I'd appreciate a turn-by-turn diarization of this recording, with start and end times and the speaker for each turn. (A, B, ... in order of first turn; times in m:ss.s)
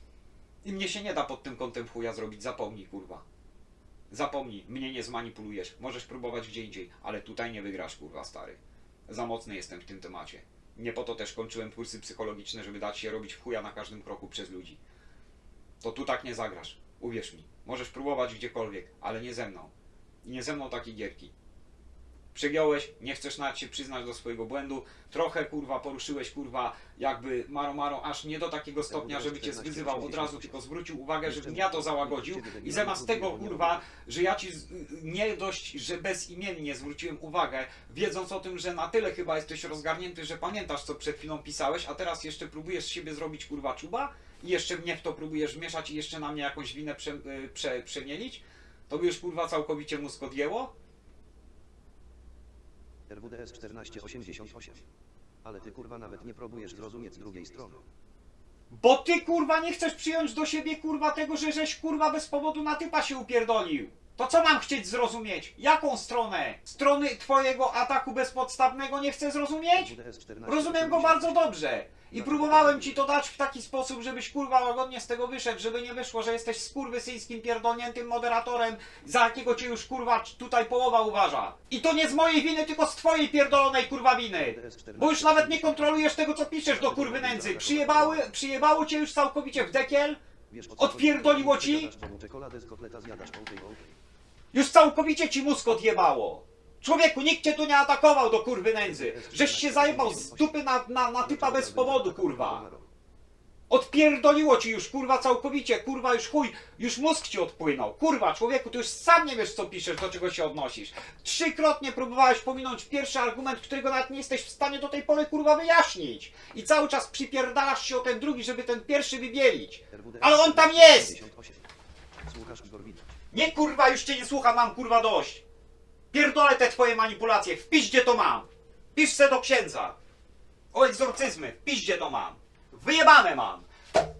0:00.6-0:03.2 A
0:04.1-0:14.8 A
0:15.8-0:19.7 A
0:20.2-0:21.3 A
0:22.3-0:50.7 A
0:28.9-0:30.6 B
0:31.2-0:33.8 B
0:53.1-0:54.8 B
0:55.4-0:57.8 B
0:58.7-1:09.9 A
1:09.7-1:11.5 B
1:10.4-1:30.2 A
1:12.1-1:13.0 B
1:24.3-1:26.0 B
1:26.7-1:28.3 B
1:30.5-1:34.0 B
1:30.8-1:31.9 A
1:34.5-1:42.6 A
1:38.8-1:40.6 B
1:41.2-1:42.9 B
1:43.7-2:01.2 A
1:59.9-2:01.6 B
2:02.2-2:03.1 B
2:03.3-2:05.4 A
2:06.1-2:10.0 A
2:10.7-2:13.7 A